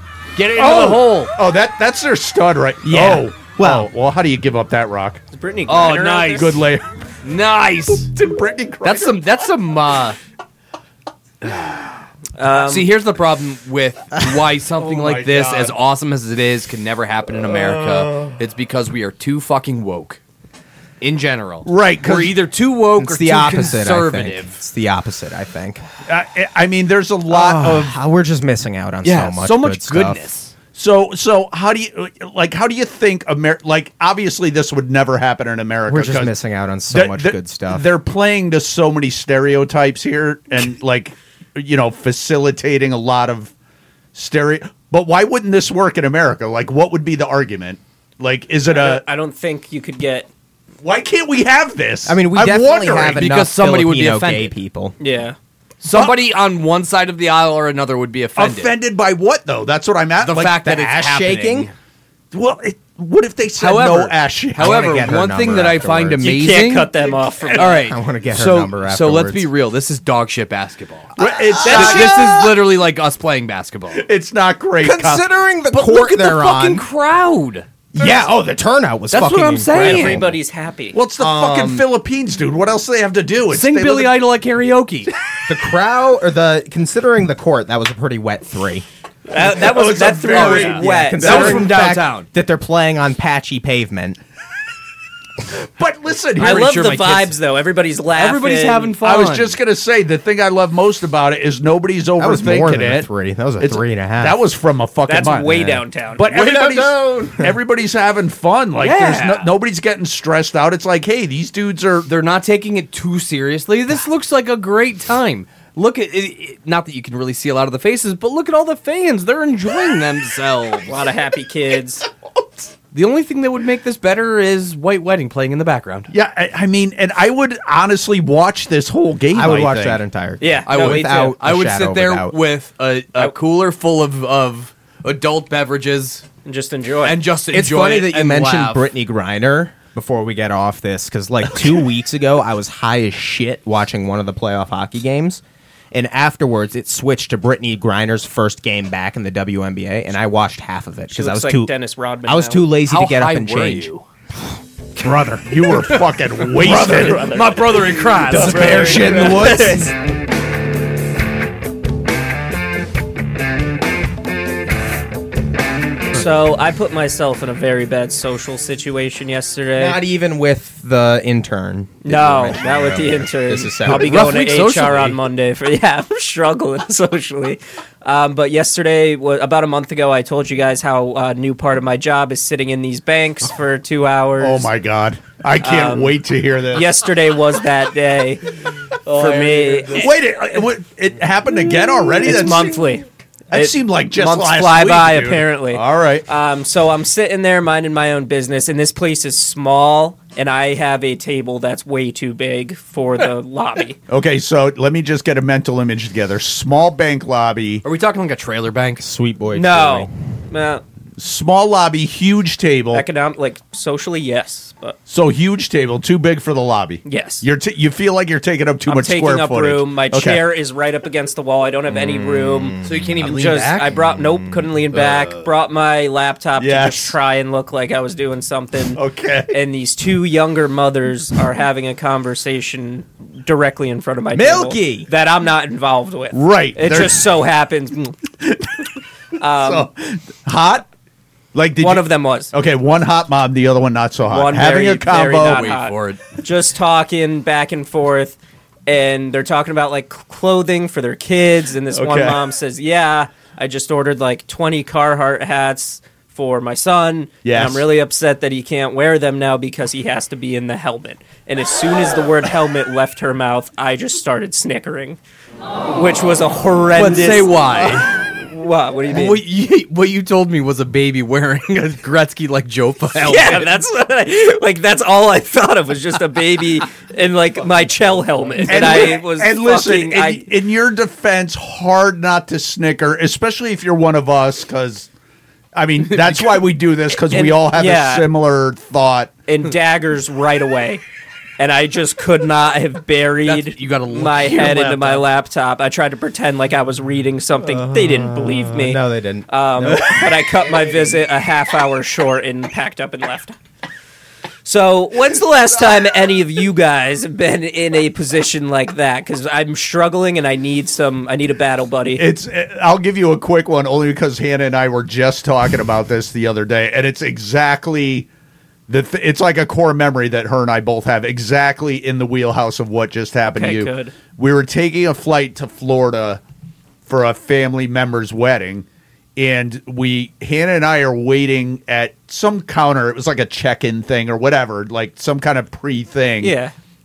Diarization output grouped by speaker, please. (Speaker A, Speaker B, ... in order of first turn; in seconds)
Speaker A: 0.3-1.3, 5.7-6.7, 7.2-8.1, 8.8-10.2, 11.4-11.7, 12.5-20.2, 21.0-24.6, 29.0-30.5, 53.1-54.5, 55.8-58.7, 60.2-61.7, 63.6-66.9, 67.5-74.0, 75.7-77.7, 79.1-80.3, 81.2-81.8, 83.5-85.1, 90.2-92.3, 96.3-97.4, 98.1-99.6, 106.3-107.3, 108.8-109.5, 112.0-121.0, 122.9-126.1, 130.7-136.2, 137.0-138.8, 152.9-154.0, 156.6-159.3, 173.8-175.2, 189.1-190.1, 207.8-209.0, 222.8-223.9, 224.9-225.5, 245.4-246.2, 266.9-268.1, 269.1-273.8, 286.1-286.7, 293.4-295.2
Speaker B: 0.5-5.2, 6.3-6.8, 8.1-9.2, 14.8-15.7, 17.5-18.3, 21.6-22.3, 26.1-27.9, 30.7-36.3, 36.9-43.5, 44.1-49.0, 50.8-53.2, 58.4-60.8, 62.3-65.1, 67.0-67.8, 71.2-72.5, 73.9-75.2, 78.0-78.3, 80.9-84.2, 89.4-91.7, 95.8-96.7, 99.0-103.1, 103.6-112.1, 126.1-130.0, 155.4-157.3, 184.4-186.9, 189.9-192.8, 193.5-196.2, 204.1-207.8, 211.2-213.0, 215.1-220.4, 226.6-227.2, 228.9-229.5, 236.3-237.2, 238.4-238.8, 239.6-240.9, 241.5-245.7, 251.9-252.4, 257.4-257.9, 278.6-285.1, 285.7-289.3, 312.1-318.3, 318.9-326.4, 327.1-336.5
Speaker C: 2.8-3.9, 23.0-25.8, 27.3-30.2, 35.9-37.8, 52.0-55.0, 60.6-61.7, 64.6-66.5, 67.8-69.5, 71.2-72.2, 74.8-76.8, 77.9-80.4, 81.3-81.8, 85.5-88.8, 90.8-94.2, 102.2-104.4, 129.3-132.3, 137.5-145.4, 145.9-151.7, 152.2-153.9, 154.9-155.8, 158.3-159.9, 169.8-174.3, 209.0-210.1, 222.1-223.0, 234.3-235.1, 297.6-300.4
Speaker D: 5.3-6.5, 12.4-12.9, 48.7-50.3, 55.0-55.4, 66.2-67.9, 71.6-72.1, 79.7-81.0, 89.3-91.6, 96.4-99.0, 105.1-106.3, 120.9-122.0, 130.4-131.3, 136.4-137.2, 151.1-152.7, 156.6-159.9, 166.1-170.0, 172.0-184.7, 185.6-186.2, 186.7-188.6, 189.1-190.1, 192.2-204.0, 209.5-210.8, 212.9-215.0, 217.0-217.4, 218.9-238.2, 239.4-239.9, 241.8-242.5, 244.3-265.2, 265.9-269.4, 273.2-280.4, 287.3-288.3, 289.5-291.0, 291.6-303.6, 304.6-312.2, 323.5-324.1, 336.4-336.7